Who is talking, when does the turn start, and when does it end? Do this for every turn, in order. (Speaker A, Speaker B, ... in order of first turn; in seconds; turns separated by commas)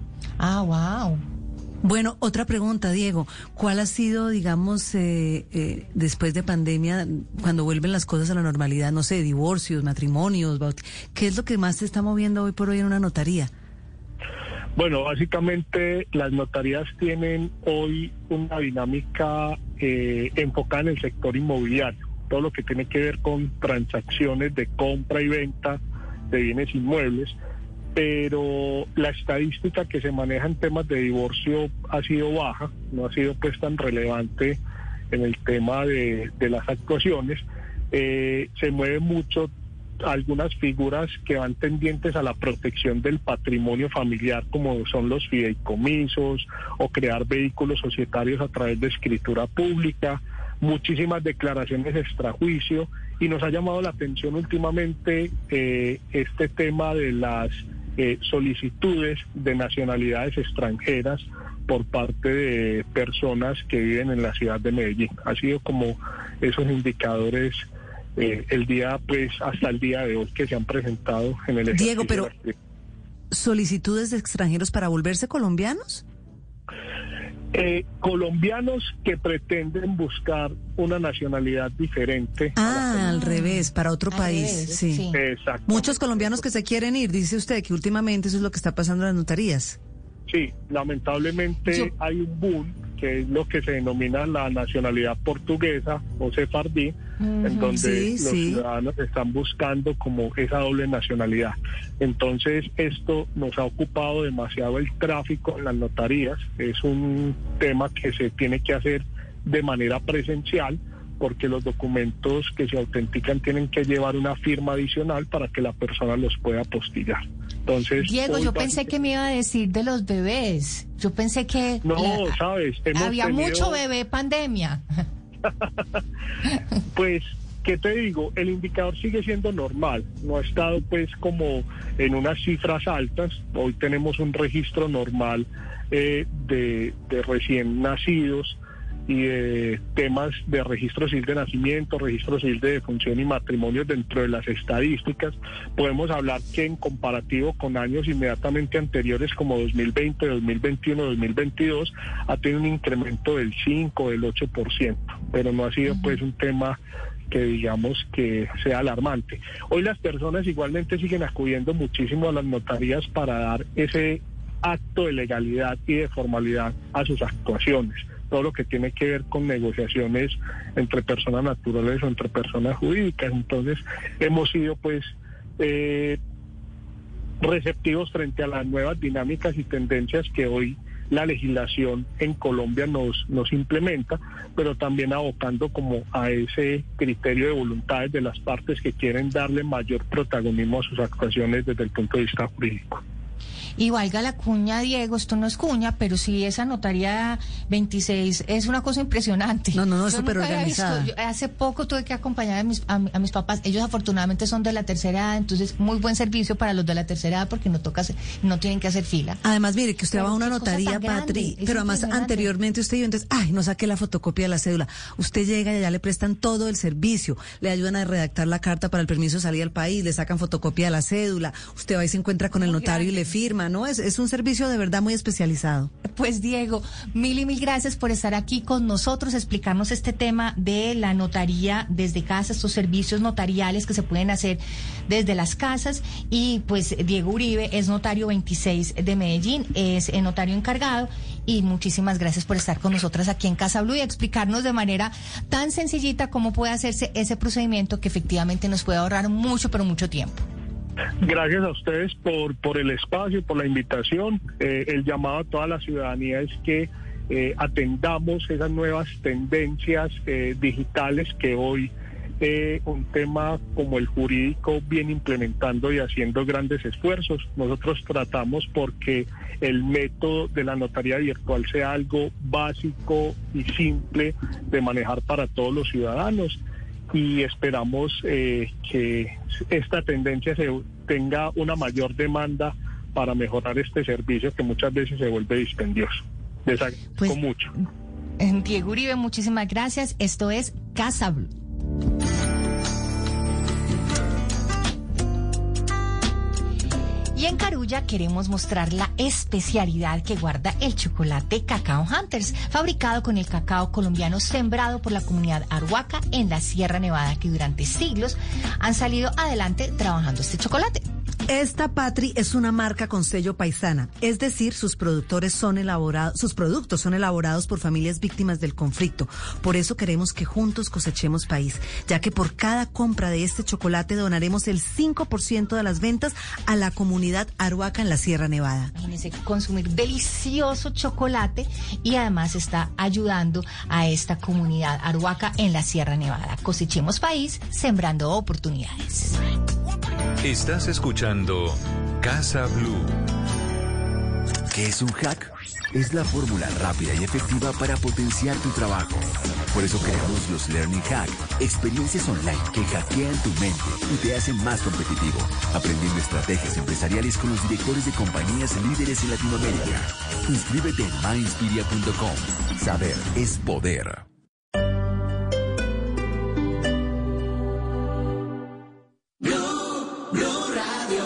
Speaker A: 0.4-1.2, Speaker B: 1.8-13.5, Speaker C: 14.8-25.8, Speaker C: 26.3-27.3, Speaker C: 27.9-34.6, Speaker C: 35.1-39.5, Speaker C: 40.0-67.6, Speaker C: 68.2-72.5, Speaker B: 71.7-72.3, Speaker B: 73.3-76.0, Speaker C: 77.5-82.8, Speaker B: 82.5-85.0, Speaker A: 82.9-85.2, Speaker C: 85.1-86.4, Speaker B: 85.7-89.8, Speaker C: 90.3-118.8, Speaker A: 97.2-97.7, Speaker B: 97.7-98.6, Speaker A: 118.0-122.4, Speaker C: 121.8-123.8, Speaker A: 122.9-124.8, Speaker C: 126.9-156.8, Speaker C: 157.3-176.2, Speaker C: 177.4-193.0, Speaker A: 193.8-209.4, Speaker B: 199.7-201.1, Speaker B: 209.4-225.9, Speaker A: 210.1-212.5, Speaker A: 222.6-223.3, Speaker A: 226.0-250.4, Speaker C: 251.2-276.6, Speaker C: 277.1-287.7, Speaker A: 288.4-291.5, Speaker A: 297.3-311.0, Speaker B: 311.5-328.9, Speaker A: 328.9-339.4, Speaker D: 340.4-343.2, Speaker E: 344.7-364.2